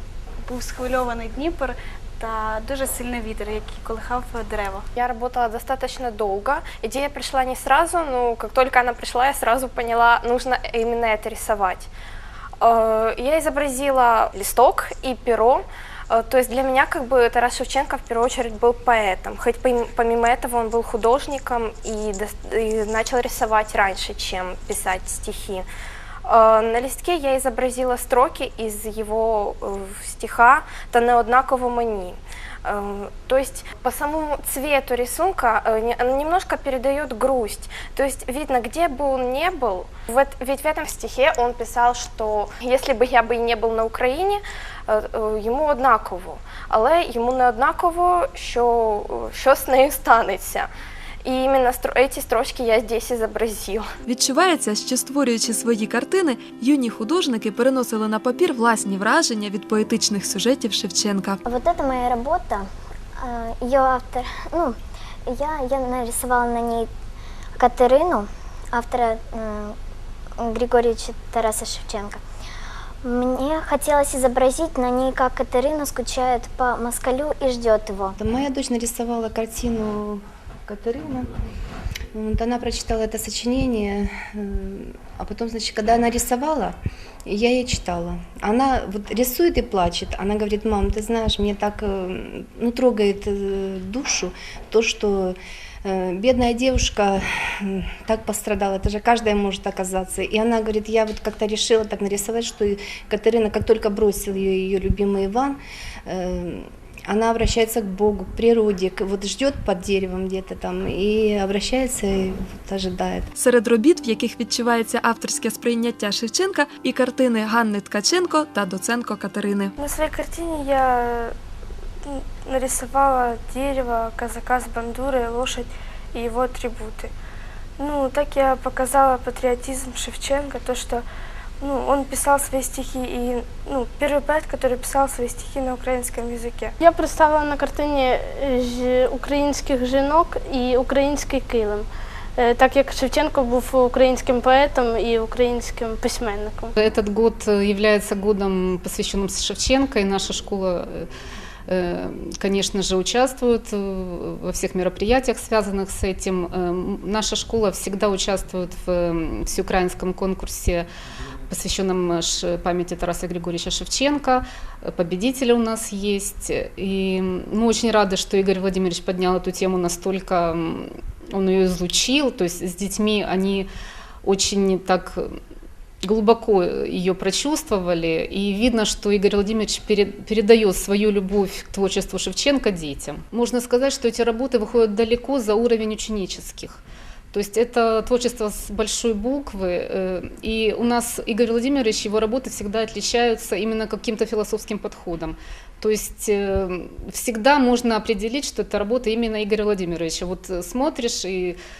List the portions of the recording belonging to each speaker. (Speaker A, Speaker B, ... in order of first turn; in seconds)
Speaker A: 0.5-4.8
Speaker B: 4.9-11.9, 12.6-25.7, 26.2-50.7, 51.2-53.9
Speaker C: 54.0-61.4, 113.3-119.7
Speaker D: 61.5-66.9, 67.6-69.7, 70.4-72.2, 73.0-78.1
Speaker E: 78.2-81.2, 82.1-113.2
Speaker F: 119.8-121.3, 122.0-127.1, 127.8-131.1, 131.6-136.7
Speaker G: 136.8-146.7
Speaker H: 146.8-151.1, 151.7-160.9, 161.5-173.7, 174.2-175.4, 176.0-186.8, 187.3-201.6